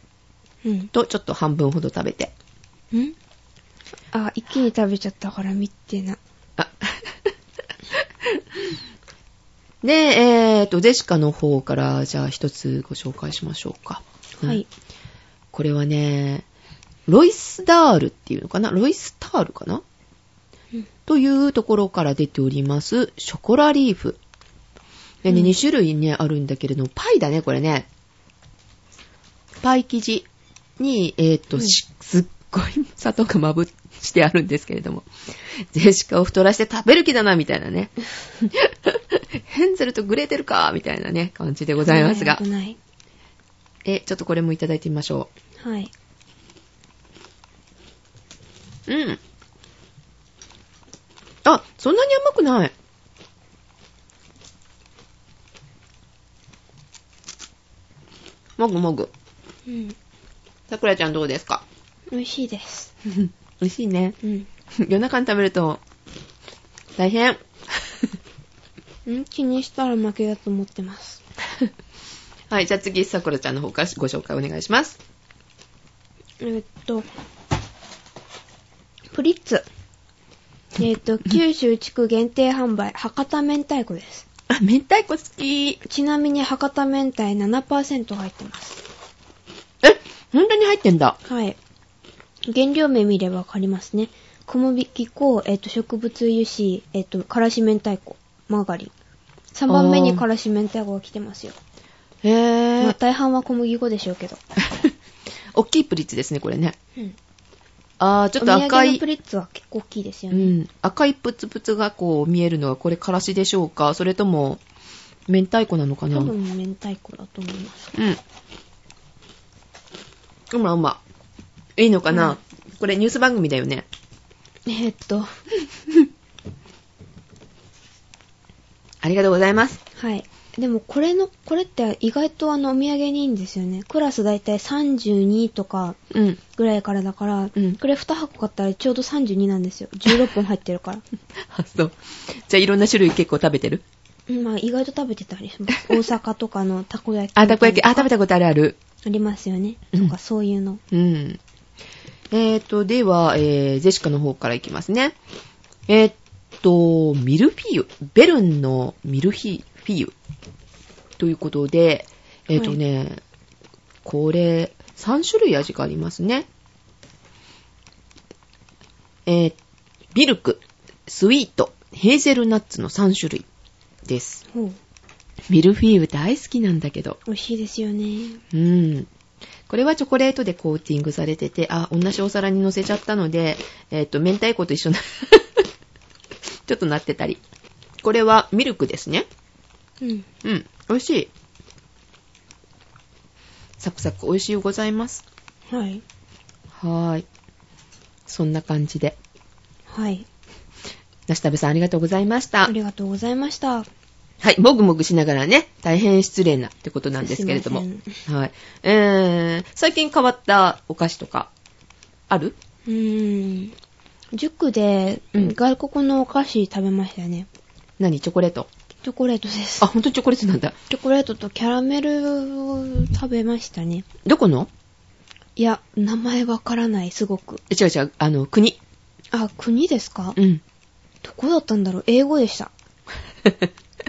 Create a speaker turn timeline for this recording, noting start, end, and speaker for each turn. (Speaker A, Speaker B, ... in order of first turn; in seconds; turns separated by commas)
Speaker A: 0.6-0.9, Speaker B: 0.9-2.3, Speaker A: 4.1-6.2, Speaker B: 6.6-7.3, Speaker B: 7.9-8.6, Speaker B: 9.8-14.6, Speaker A: 14.4-14.7, Speaker B: 15.5-16.4, Speaker B: 17.1-19.8, Speaker B: 21.1-24.2, Speaker B: 25.2-27.9, Speaker A: 25.3-25.5, Speaker B: 29.6-30.3, Speaker B: 30.8-42.4, Speaker A: 41.8-42.8, Speaker B: 43.8-45.3, Speaker A: 45.6-45.9, Speaker B: 48.9-49.2, Speaker B: 51.4-52.7, Speaker B: 58.6-59.1, Speaker A: 59.7-59.9, Speaker B: 60.7-61.6, Speaker A: 62.1-62.9, Speaker B: 63.0-64.2, Speaker B: 64.7-65.8, Speaker B: 67.0-68.0, Speaker A: 69.0-71.2, Speaker B: 72.5-75.0, Speaker A: 76.4-77.1, Speaker A: 79.1-79.6, Speaker A: 80.8-84.2, Speaker B: 84.5-85.8, Speaker A: 85.8-88.8, Speaker B: 89.8-91.2, Speaker A: 91.2-91.6, Speaker A: 92.5-98.9, Speaker A: 99.5-101.5, Speaker B: 99.7-100.2, Speaker B: 102.2-103.0, Speaker A: 102.8-104.4, Speaker B: 104.6-104.9, Speaker B: 105.5-106.8, Speaker B: 108.0-109.0, Speaker A: 108.4-110.5, Speaker B: 110.3-114.6, Speaker B: 115.3-116.3, Speaker A: 116.1-117.9, Speaker B: 117.9-118.2, Speaker B: 120.5-121.0, Speaker B: 121.8-123.8, Speaker A: 122.1-122.4, Speaker A: 124.7-125.3, Speaker B: 129.0-129.8, Speaker A: 129.9-136.0, Speaker B: 136.1-136.4, Speaker A: 136.5-141.0, Speaker B: 141.4-143.8, Speaker A: 144.3-148.1, Speaker B: 147.3-148.8, Speaker A: 149.0-150.8, Speaker B: 150.9-151.4, Speaker B: 152.3-155.2, Speaker B: 155.9-160.1, Speaker B: 161.2-163.2, Speaker A: 162.5-162.8, Speaker B: 164.0-166.5, Speaker B: 169.2-169.6, Speaker B: 170.1-173.4, Speaker B: 174.1-174.4, Speaker A: 174.5-174.8, Speaker B: 175.5-177.2, Speaker A: 177.2-178.4, Speaker B: 178.5-179.1, Speaker B: 179.7-185.6, Speaker B: 186.7-187.4, Speaker B: 188.0-189.2, Speaker A: 190.0-190.3, Speaker B: 190.4-191.3, Speaker B: 193.8-195.2, Speaker A: 195.7-196.0, Speaker B: 196.7-197.2, Speaker B: 198.3-199.2, Speaker A: 199.9-200.2, Speaker B: 201.3-202.7, Speaker A: 202.6-203.9, Speaker B: 204.4-211.5, Speaker A: 207.2-208.2, Speaker B: 212.3-212.6, Speaker A: 212.9-213.7, Speaker A: 214.3-217.5, Speaker B: 218.0-218.7, Speaker A: 219.0-219.9, Speaker B: 219.8-220.7, Speaker A: 220.9-224.1, Speaker B: 224.2-224.7, Speaker A: 225.6-227.6, Speaker B: 227.7-228.8, Speaker A: 229.3-230.4, Speaker B: 230.4-230.6, Speaker A: 231.2-232.7